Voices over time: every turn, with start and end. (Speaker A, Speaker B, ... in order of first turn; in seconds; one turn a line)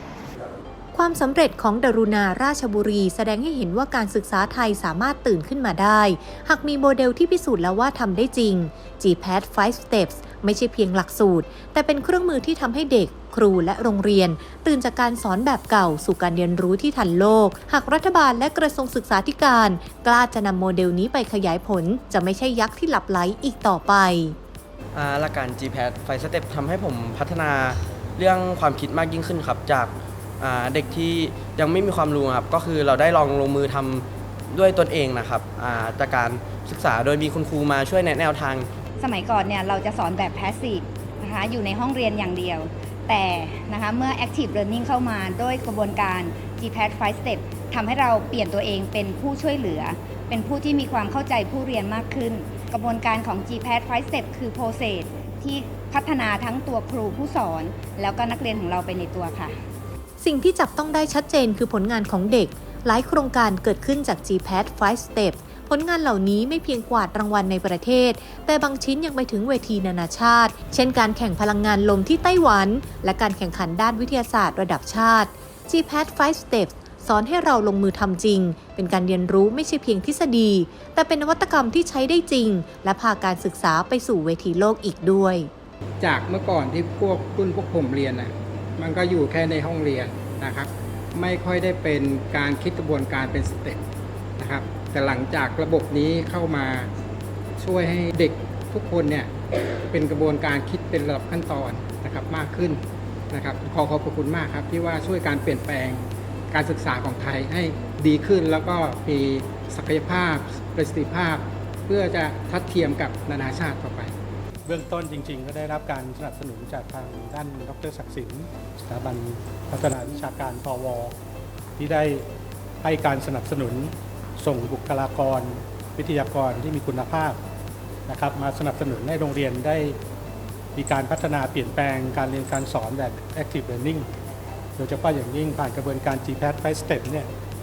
Speaker A: 0.9-24.4
Speaker B: 24.9-38.7
Speaker C: 39.0-59.5
Speaker A: 60.2-85.5
Speaker D: 86.0-93.8
Speaker D: 94.4-96.9
Speaker D: 97.6-99.3
Speaker D: 99.9-114.1
Speaker E: 114.7-121.1
Speaker E: 121.8-122.2
Speaker E: 122.8-127.4
Speaker E: 128.1-130.0
Speaker E: 130.7-134.1
Speaker E: 134.8-137.3